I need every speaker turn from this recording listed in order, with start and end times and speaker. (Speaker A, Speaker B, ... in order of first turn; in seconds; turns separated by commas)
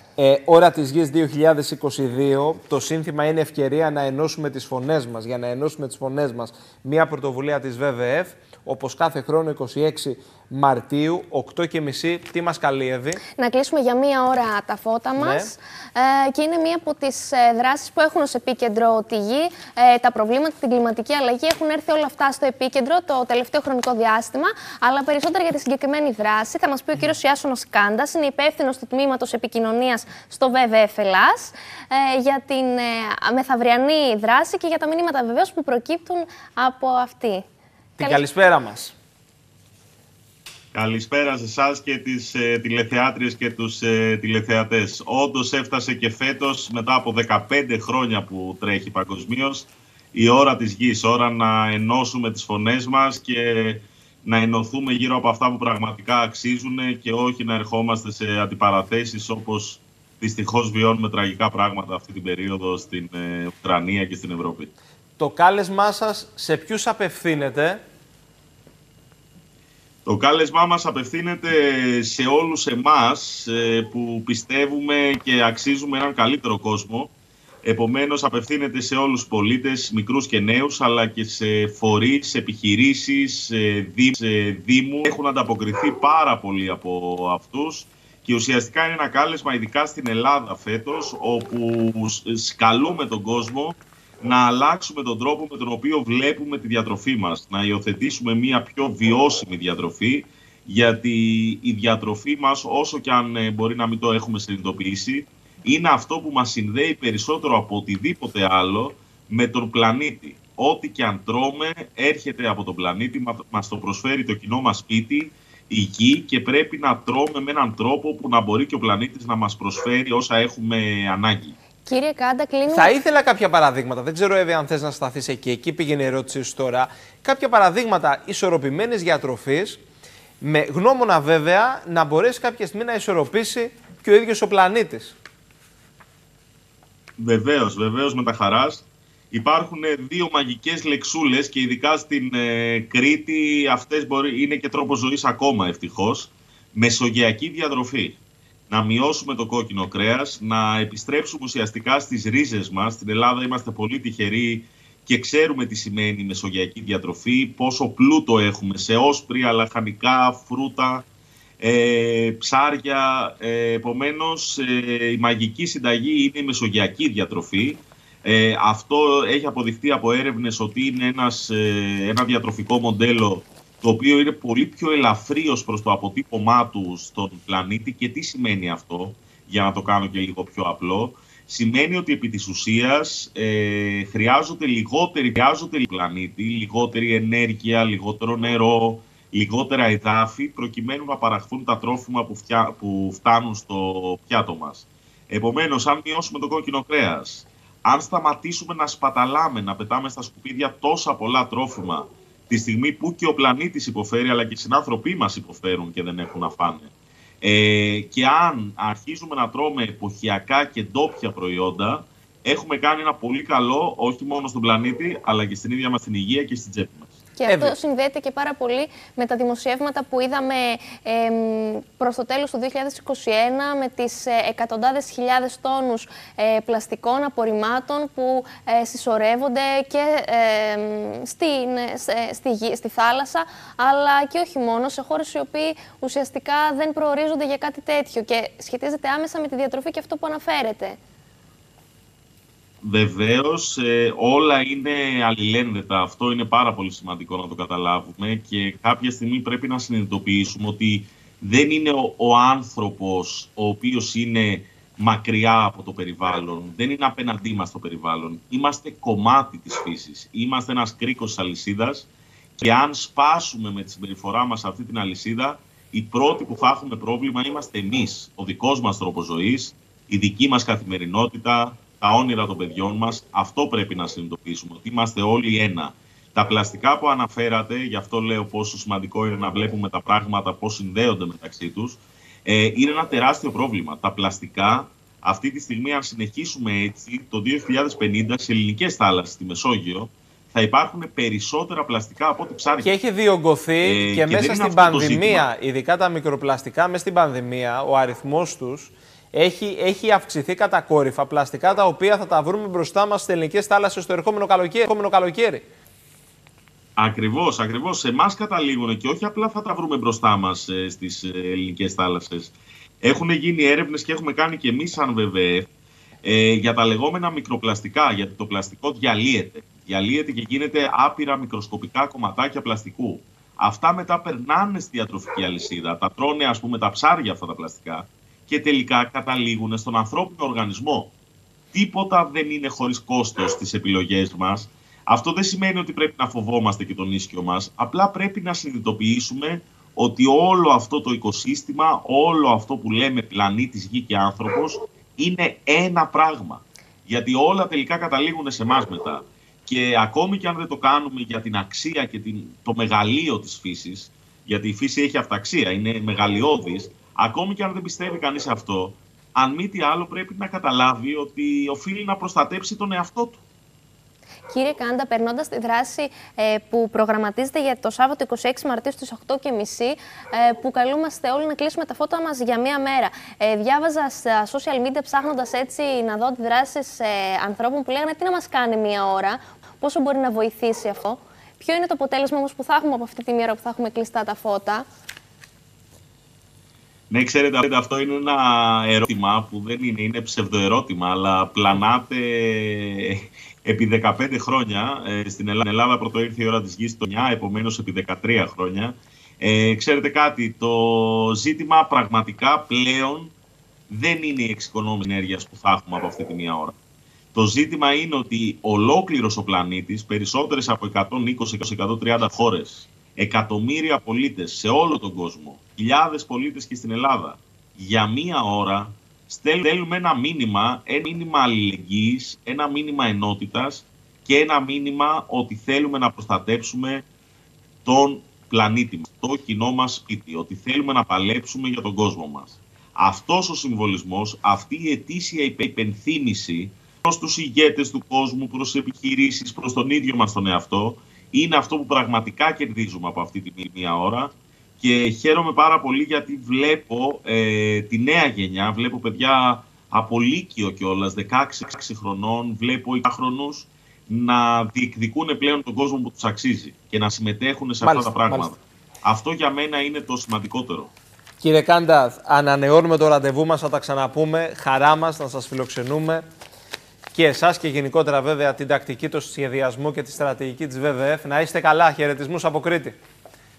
Speaker A: 0.2-13.2, Speaker B: 13.4-37.4, Speaker A: 15.2-15.5, Speaker A: 38.0-38.9, Speaker C: 40.7-64.7, Speaker A: 65.2-67.8, Speaker C: 70.0-77.1, Speaker C: 77.6-121.5, Speaker B: 121.8-122.9, Speaker A: 122.7-129.8, Speaker A: 130.4-135.2, Speaker C: 137.2-161.1, Speaker C: 161.6-206.9, Speaker C: 207.4-217.2, Speaker B: 217.3-241.0, Speaker A: 217.5-217.8, Speaker C: 242.8-292.9, Speaker A: 292.8-305.6, Speaker C: 293.8-295.5, Speaker C: 307.0-315.7, Speaker C: 316.2-331.1, Speaker C: 331.7-363.4, Speaker B: 364.5-384.9, Speaker C: 387.1-403.3, Speaker C: 403.9-406.8, Speaker C: 407.3-427.0, Speaker C: 427.8-460.9, Speaker A: 457.8-458.5, Speaker A: 461.4-466.2, Speaker A: 467.1-472.9